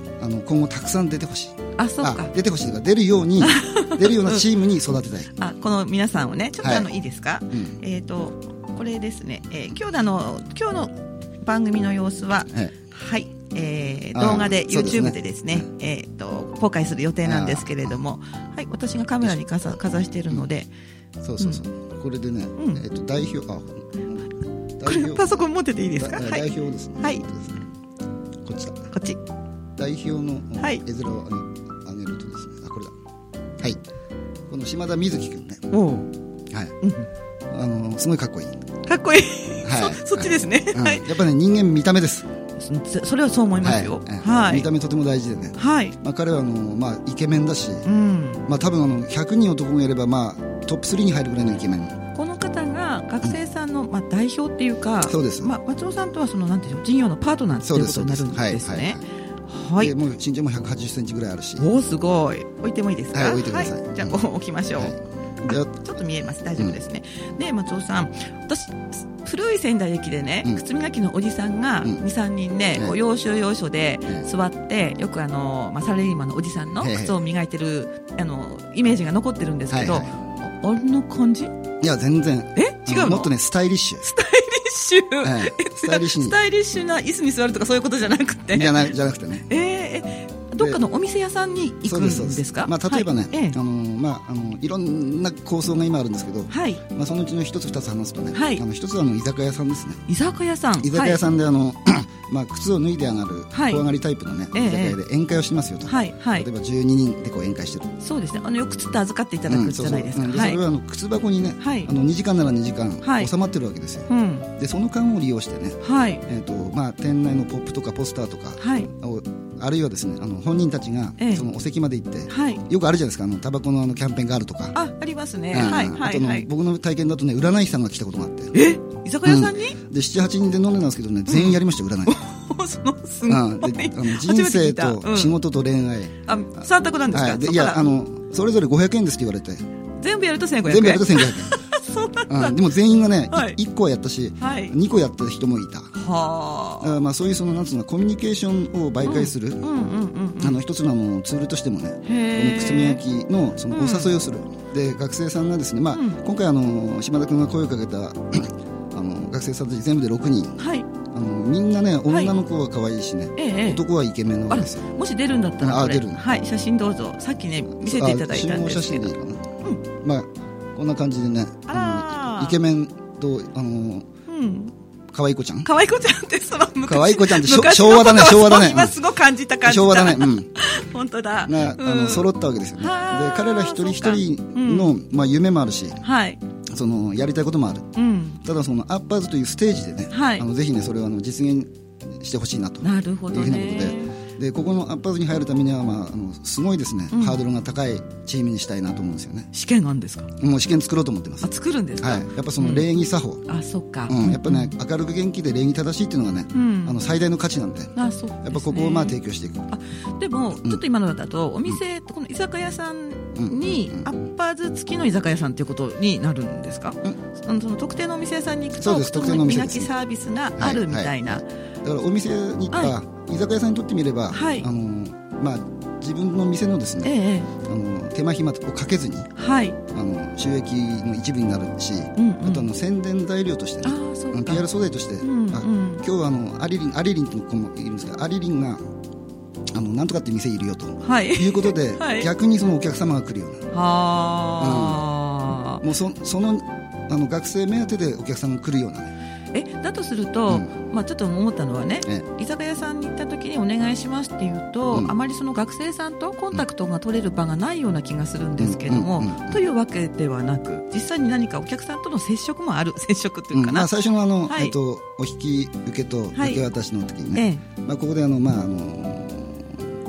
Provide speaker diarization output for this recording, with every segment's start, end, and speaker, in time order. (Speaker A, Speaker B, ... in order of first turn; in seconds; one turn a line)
Speaker A: 0.2-5.3
Speaker B: 1.8-2.3
Speaker B: 3.4-4.4
Speaker B: 5.3-20.7
Speaker A: 6.6-6.9
Speaker A: 7.5-7.8
Speaker A: 14.1-15.6
Speaker A: 17.2-18.0
Speaker A: 21.2-25.4
Speaker B: 22.6-22.8
Speaker B: 24.9-27.2
Speaker A: 26.0-27.7
Speaker A: 28.4-28.9
Speaker B: 28.9-29.2
Speaker A: 29.8-32.9
Speaker A: 34.5-35.7
Speaker B: 35.7-36.1
Speaker A: 36.5-36.7
Speaker B: 36.8-37.1
Speaker A: 37.5-38.6
Speaker B: 38.9-41.1
Speaker A: 39.6-42.3
Speaker B: 42.6-44.7
Speaker A: 43.6-47.9
Speaker B: 45.6-45.9
Speaker B: 47.8-48.5
Speaker A: 48.5-52.0
Speaker B: 52.1-59.9
Speaker A: 55.0-55.5
Speaker A: 57.6-59.0
Speaker A: 59.8-61.7
Speaker B: 61.6-81.5
Speaker A: 63.1-64.2
Speaker A: 64.8-65.8
Speaker A: 76.8-77.2
Speaker A: 79.7-80.1
Speaker A: 81.8-84.1
Speaker B: 82.5-83.3
Speaker B: 84.0-88.9
Speaker A: 85.2-86.4
Speaker A: 88.5-89.5
Speaker B: 89.5-93.6
Speaker A: 91.8-100.0
Speaker B: 96.5-96.8
Speaker B: 98.3-98.6
Speaker B: 100.1-101.2
Speaker A: 100.8-107.9
Speaker B: 103.5-103.8
Speaker B: 104.5-105.0
Speaker B: 105.9-106.5
Speaker B: 108.0-110.6
Speaker A: 109.5-124.8
Speaker B: 111.6-111.9
Speaker B: 113.0-113.3
Speaker B: 114.1-114.5
Speaker B: 115.8-116.2
Speaker B: 118.6-118.9
Speaker B: 121.2-121.5
Speaker B: 122.3-122.6
Speaker B: 124.7-126.5
Speaker A: 125.5-128.5
Speaker B: 128.5-129.8
Speaker A: 129.2-132.2
Speaker B: 131.3-135.3
Speaker A: 133.3-136.1
Speaker B: 136.3-137.9
Speaker A: 137.1-139.6
Speaker B: 140.0-142.6
Speaker A: 140.6-141.6
Speaker A: 142.3-145.9
Speaker B: 143.3-143.6
Speaker B: 144.4-144.7
Speaker B: 145.9-146.9
Speaker A: 146.8-149.7
Speaker B: 149.0-150.6
Speaker A: 150.4-160.6
Speaker B: 152.0-153.0
Speaker B: 153.7-154.1
Speaker B: 155.9-156.2
Speaker B: 160.6-160.9
Speaker A: 161.1-164.8
Speaker B: 162.1-162.3
Speaker B: 163.4-163.8
Speaker B: 164.5-169.1
Speaker A: 165.6-166.2
Speaker A: 167.7-174.1
Speaker B: 171.7-172.6
Speaker B: 174.3-174.7
Speaker A: 175.1-175.7
Speaker B: 175.6-184.9
Speaker A: 176.8-178.9
Speaker A: 179.6-180.5
Speaker A: 181.4-186.0
Speaker B: 186.0-186.4
Speaker A: 186.7-187.9
Speaker B: 187.9-188.4
Speaker A: 188.4-199.5
Speaker B: 190.1-190.4
Speaker B: 192.8-194.1
Speaker B: 197.1-197.4
Speaker B: 199.5-200.3
Speaker A: 200.4-201.5
Speaker B: 201.4-202.9
Speaker A: 202.0-203.4
Speaker B: 203.4-204.7
Speaker A: 204.1-209.7
Speaker B: 206.5-207.0
Speaker B: 207.9-209.2
Speaker B: 209.7-221.4
Speaker A: 213.3-214.1
Speaker A: 218.8-219.9
Speaker A: 220.6-229.3
Speaker B: 224.3-224.7
Speaker B: 227.0-227.5
Speaker B: 229.4-229.8
Speaker A: 229.9-238.8
Speaker B: 232.2-232.7
Speaker B: 233.8-234.6
Speaker B: 235.2-236.0
Speaker A: 239.7-243.7
Speaker B: 241.0-242.3
Speaker B: 243.7-245.8
Speaker A: 244.6-245.0
Speaker A: 245.8-249.1
Speaker B: 249.5-263.9
Speaker A: 258.6-259.6
Speaker A: 263.5-269.9
Speaker B: 264.5-264.7
Speaker B: 266.4-266.6
Speaker B: 267.3-267.6